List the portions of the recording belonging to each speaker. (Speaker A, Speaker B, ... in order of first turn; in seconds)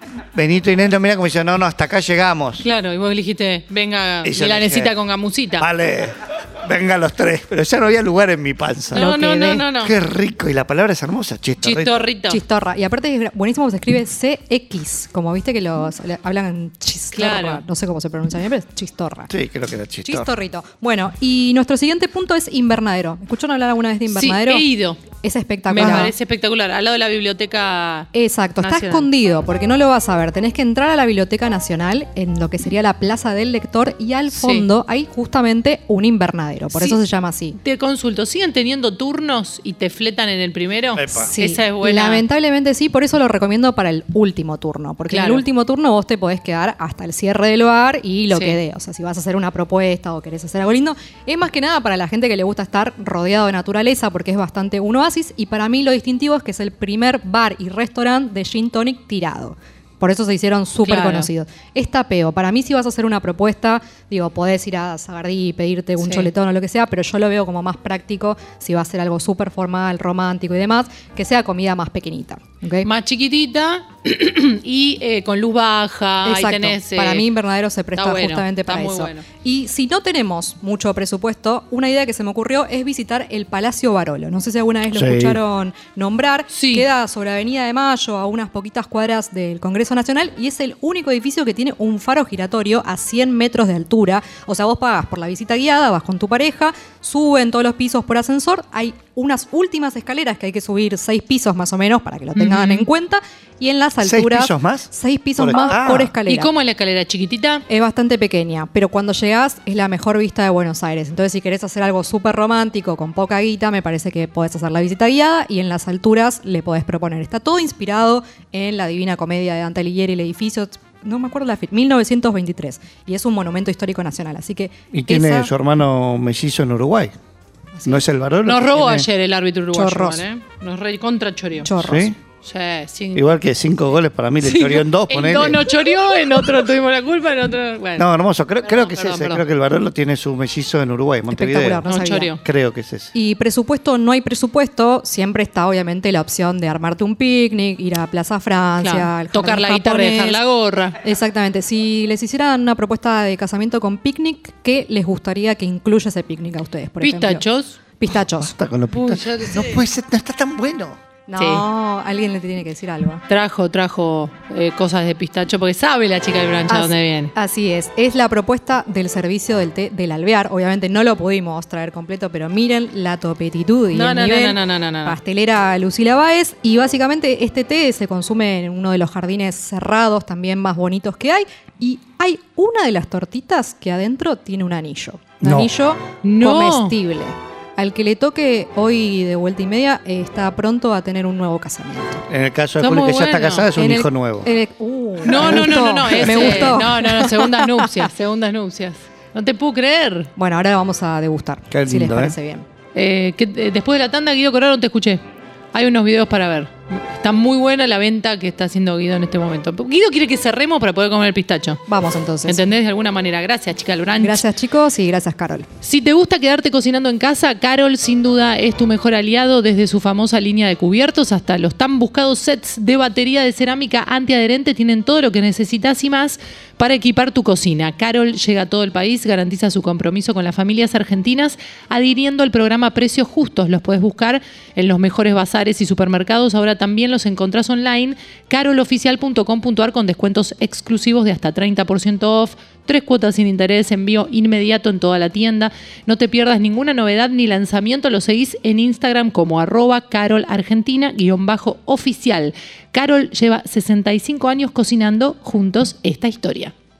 Speaker A: 0.3-2.6, 4.2-4.9, 5.6-9.1, 9.7-12.0, 19.3-20.3, 41.0-41.3, 84.9-85.4, 104.0-106.1, 124.9-127.1, 127.8-129.1, 131.8-132.2, 133.1-135.7, 137.9-141.8, 142.4-143.1, 158.4-161.0, 185.4-185.7, 192.3-194.5, 201.7-202.3
Speaker B: 2.6-5.7, 8.9-9.9, 11.6-12.4, 17.1-17.6, 24.1-25.1, 25.7-28.1, 28.6-29.1, 34.3-34.7, 36.7-37.0, 37.5-42.2, 45.1-45.4, 48.3-48.6, 60.8-61.3, 66.0-66.3, 72.8-77.3, 78.0-79.2, 86.5-86.9, 102.3-102.9, 106.2-107.6, 128.4-131.7, 132.4-133.2, 134.4-138.1, 138.6-139.4, 141.9-142.4, 148.8-151.0, 157.0-157.8, 158.9-159.8, 161.3-161.7, 163.3-167.3, 173.9-175.2, 186.2-186.9, 192.8-193.7, 195.2-200.3, 202.9-205.2, 205.7-211.8, 212.4-214.4, 215.8-256.7
Speaker C: 8.9-9.6, 12.3-19.3, 20.0-26.1, 28.1-37.5, 41.2-72.9, 76.2-106.5, 107.7-125.5, 127.8-128.0, 129.7-130.2, 131.6-132.1, 141.3-142.3, 143.1-150.4, 151.0-157.4, 158.0-158.5, 161.3-163.2, 166.7-192.2, 193.7-198.1, 200.4-202.6, 211.9-212.6, 214.2-215.7